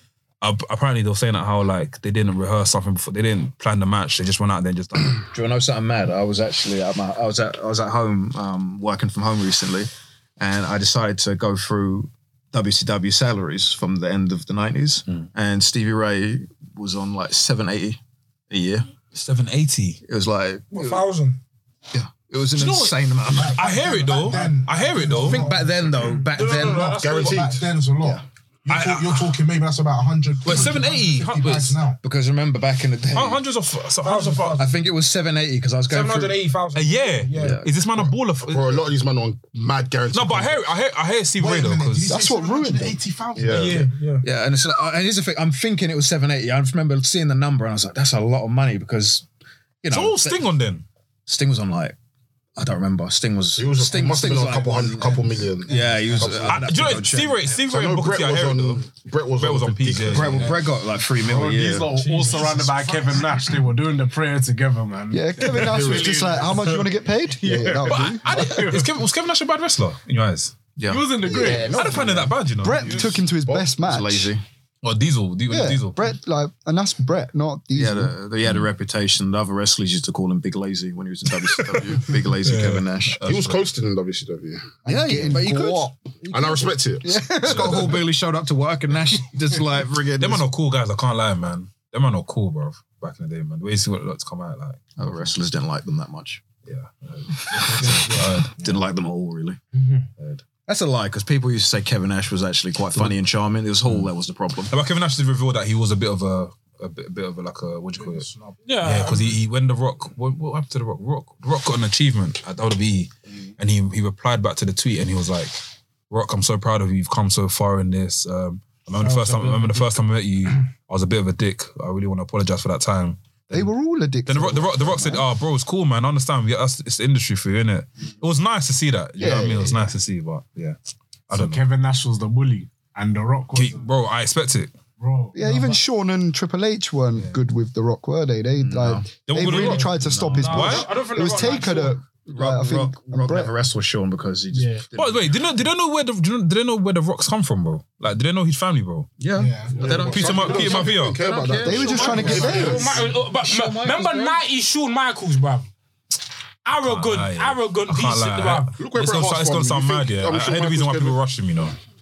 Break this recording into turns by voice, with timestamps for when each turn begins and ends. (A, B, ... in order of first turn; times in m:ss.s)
0:00.4-0:05.3 A
0:05.2-0:18.9 B
0:19.1-0:20.0 A
0:20.0-0:21.1 B
0:20.7-0:21.4 C
0:21.9-0:23.7 B
0:22.6-0:22.9 A
0:23.4-0:24.5 C
0:23.5-0:25.4 A
0:23.6-0:32.0 D
0:25.1-0:27.0 B
0:26.3-0:27.6 C
0:27.0-0:27.7 E
0:28.7-0:29.4 A
0:30.4-0:31.8 A
0:32.0-0:33.4 B
0:33.1-0:34.7 A
0:34.0-0:34.7 C
0:34.5-0:36.4 B
0:35.9-0:37.6 C
0:36.8-0:38.8 A
0:37.3-0:37.7 B
0:37.9-0:40.6 E
0:40.1-0:42.1 A
0:41.4-0:43.8 D
0:42.1-0:43.0 F
0:43.4-0:43.8 E
0:43.5-0:44.2 C
0:43.8-0:49.3 B
0:49.8-0:50.4 B
0:49.9-0:50.8 A
0:51.3-0:52.0 B
0:52.6-0:57.5 B
0:53.6-0:56.6 E
0:56.4-0:58.9 A
0:57.5-1:00.5 E
0:59.4-1:00.6 A
1:00.0-1:01.9 B
1:01.2-1:09.0 G
1:01.9-1:03.3 C
1:05.1-1:08.2 F
1:06.0-1:06.4 D
1:07.9-1:10.6 A
1:10.8-1:12.4 B
1:10.9-1:11.8 G
1:11.2-1:14.3 F
1:11.6-1:13.2 A
1:13.5-1:14.4 B
1:14.8-1:16.0 A
1:15.5-1:18.1 F
1:17.8-1:23.2 B
1:21.5-1:23.6 A
1:23.2-1:24.8 E
1:24.8-1:26.0 F
1:24.9-1:26.7 B
1:26.3-1:27.2 E
1:27.0-1:28.0 F
1:27.4-1:30.5 B
1:27.5-1:27.8 A
1:30.2-1:35.3 A
1:35.0-1:36.4 B
1:36.7-1:38.6 A
1:37.6-1:39.6 B
1:37.8-1:38.2 D
1:39.7-1:40.1 C
1:40.7-1:44.8 B
1:44.7-1:48.3 A
1:48.0-1:48.6 D
1:48.6-1:49.4 C
1:48.8-1:55.6 A
1:56.1-2:03.7 A
1:59.0-1:59.8 G
2:03.5-2:05.3 F
2:04.3-2:10.8 A
2:09.2-2:09.9 F
2:11.3-2:11.6 A
2:11.3-2:13.9 G
2:13.5-2:14.7 A
2:15.0-2:15.8 G
2:15.4-2:23.5 F
2:18.6-2:20.8 B
2:19.3-2:20.9 A
2:20.3-2:22.0 C
2:22.3-2:25.4 B
2:24.5-2:24.8 C
2:25.0-2:29.1 A
2:29.2-2:34.4 B
2:29.4-2:30.1 D
2:29.8-2:33.0 E
2:30.0-2:31.2 A
2:31.6-2:32.9 F
2:31.8-2:35.7 C
2:32.3-2:32.7 D
2:36.6-2:38.7 C
2:36.8-2:41.8 A
2:38.8-2:41.2 E